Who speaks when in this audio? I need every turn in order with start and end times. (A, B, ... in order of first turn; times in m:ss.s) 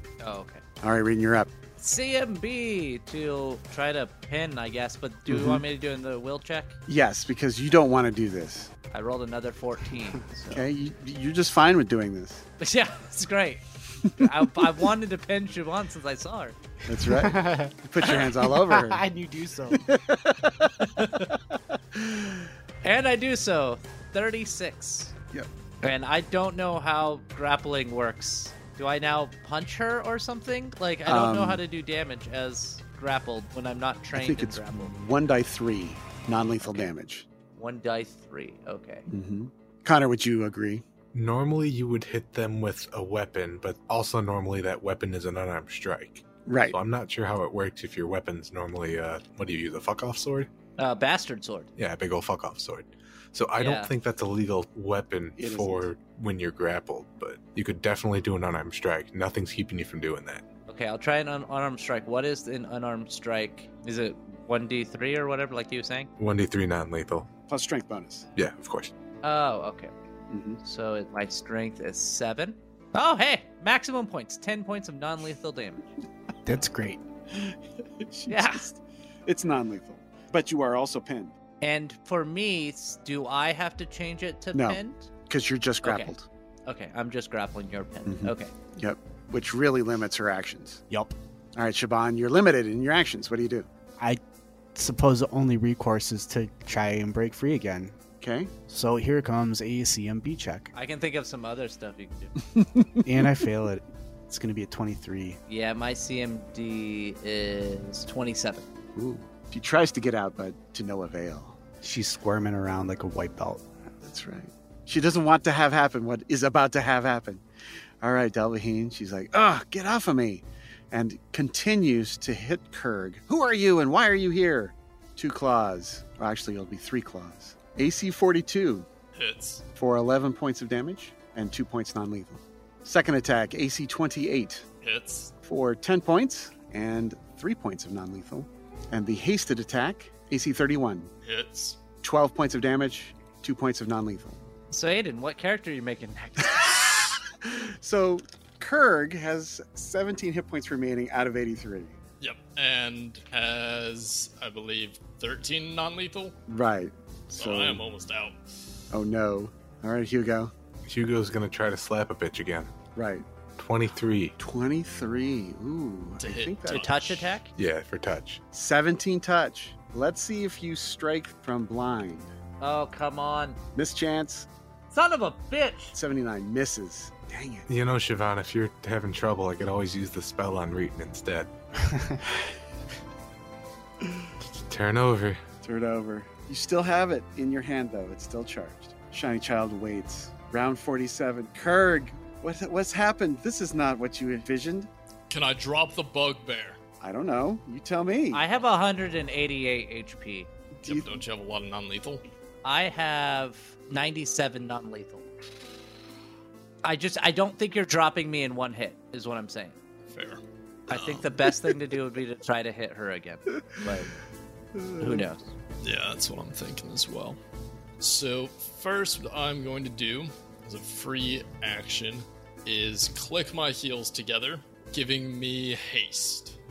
0:00.2-0:00.6 A
0:00.8-0:01.5 B
0:01.8-0:06.8 A
0:05.3-0:05.6 B
0:06.9-0:08.7 B
0:08.9-0:10.7 A
0:10.5-0:12.4 B
0:12.6-0:16.6 A
0:16.9-0:19.0 B
0:17.0-0:19.8 C
0:19.7-0:21.0 B
0:20.8-0:21.4 A
0:21.9-0:22.4 B
0:22.8-0:25.1 A
0:25.8-0:34.9 A
0:31.1-0:31.6 B
0:34.1-0:37.3 B
0:36.6-0:36.9 A
0:37.5-0:39.1 A
0:39.1-0:40.8 B
0:41.1-0:50.5 D
0:46.4-0:46.8 B
0:50.8-0:51.7 A
0:51.8-1:00.4 D
0:53.6-0:53.9 A
0:55.4-0:55.9 B
1:00.7-1:06.1 A
1:06.2-1:07.3 D
1:07.5-1:08.3 B
1:08.4-1:08.9 D
1:09.2-1:09.9 A
1:10.3-1:10.6 B
1:10.6-1:15.8 A
1:16.4-1:17.0 C
1:17.3-1:21.3 B
1:18.3-1:18.7 A
1:21.6-1:25.1 A
1:24.5-1:26.3 B
1:25.8-1:26.1 A
1:26.6-1:28.5 A
1:28.0-1:30.8 B
1:30.9-1:31.1 C
1:31.6-1:33.7 B
1:34.7-1:38.0 C
1:38.2-1:38.5 B
1:38.7-1:40.7 C
1:40.7-1:42.3 A
1:42.6-1:43.1 B
1:43.0-1:45.4 C
1:45.5-1:48.7 A
1:48.9-1:51.6 B
1:51.8-1:53.6 C
1:54.0-1:57.4 B
1:58.0-2:08.9 B
2:09.1-2:09.6 E
2:09.7-2:14.6 B
2:14.8-2:15.3 E
2:15.4-2:21.1 B
2:21.2-2:21.8 E
2:22.0-2:24.4 B
2:24.7-2:26.8 A
2:27.4-2:32.0 B
2:32.2-2:36.3 E
2:36.5-2:37.8 B
2:37.3-2:38.4 E
2:38.9-2:40.5 B
2:40.8-2:42.7 D
2:42.9-2:43.2 B
2:43.6-2:44.4 D
2:44.4-2:47.3 B
2:46.2-2:47.1 E
2:46.7-2:47.5 A
2:47.5-2:48.4 D
2:48.5-2:52.3 B
2:52.6-2:53.6 A
2:53.7-2:54.5 B
2:54.9-2:56.0 A
2:55.9-2:57.7 B
2:57.7-3:01.5 D
3:01.8-3:02.2 C
3:04.4-3:05.4 D
3:05.6-3:14.9 B
3:15.3-3:16.8 E
3:17.0-3:18.4 B
3:18.3-3:20.5 A
3:20.8-3:21.1 B
3:20.8-3:22.2 E
3:22.6-3:25.3 A
3:26.8-3:29.8 A
3:30.1-3:31.3 E
3:30.9-3:34.1 A
3:34.8-3:35.2 B
3:35.0-3:35.5 A
3:35.8-3:37.4 E
3:38.0-3:46.6 E